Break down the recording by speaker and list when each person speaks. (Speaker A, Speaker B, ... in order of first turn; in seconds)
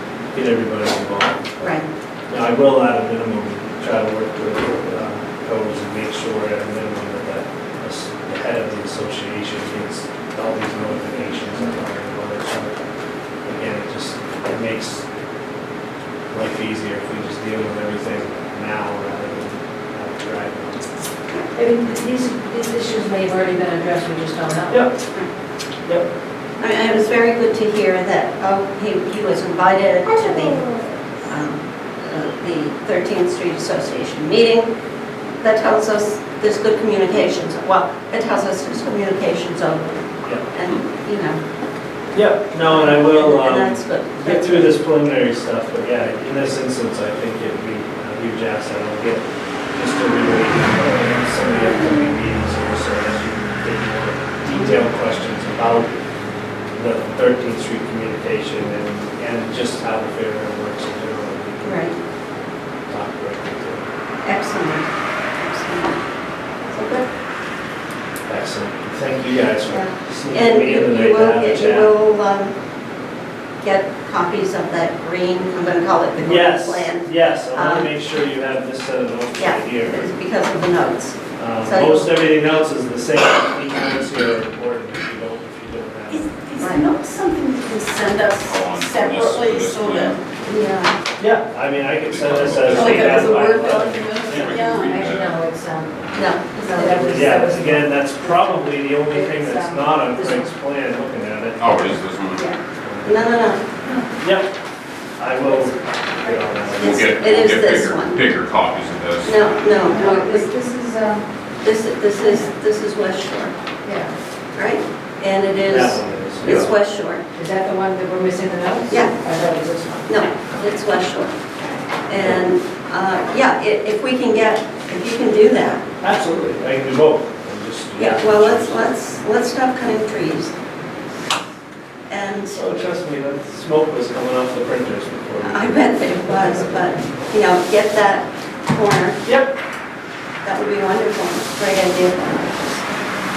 Speaker A: 0.3-1.5, 2.3-12.8, 13.4-15.1, 16.3-20.9, 24.7-25.0, 42.1-55.9, 56.7-62.0, 62.9-63.9, 68.3-71.9, 76.2-80.1, 81.3-86.3, 91.2-94.6, 96.9-102.0, 102.8-103.3, 104.2-104.5, 105.2-107.2, 115.6-116.7, 126.0-128.9, 132.5-136.8, 139.2-139.5
Speaker B: 1.6-1.9, 26.6-30.6, 31.3-34.7, 35.4-41.4, 42.6-44.7, 54.5-54.8, 61.6-62.0, 64.2-66.0, 66.7-67.0, 69.7-72.5, 73.6-77.9, 79.3-82.1, 86.6-86.9, 96.1-97.3, 103.0-103.7, 106.8-108.2, 109.2-110.5, 111.6-113.5, 114.5-117.2, 118.9-119.1, 120.1-121.3, 122.1-125.8, 128.0-130.5, 132.1-132.6, 135.4-139.2, 140.4-143.0
Speaker C: 21.5-24.8, 94.8-100.5, 103.8-104.2, 105.4-106.8, 109.8-111.3, 112.2-112.5, 113.8-114.1, 117.3-120.3
Speaker D: 30.0-30.9, 86.1-90.6, 92.7-94.9
Speaker E: 88.5-90.2, 92.0-93.3, 94.3-95.4, 101.6-102.5, 106.9-109.4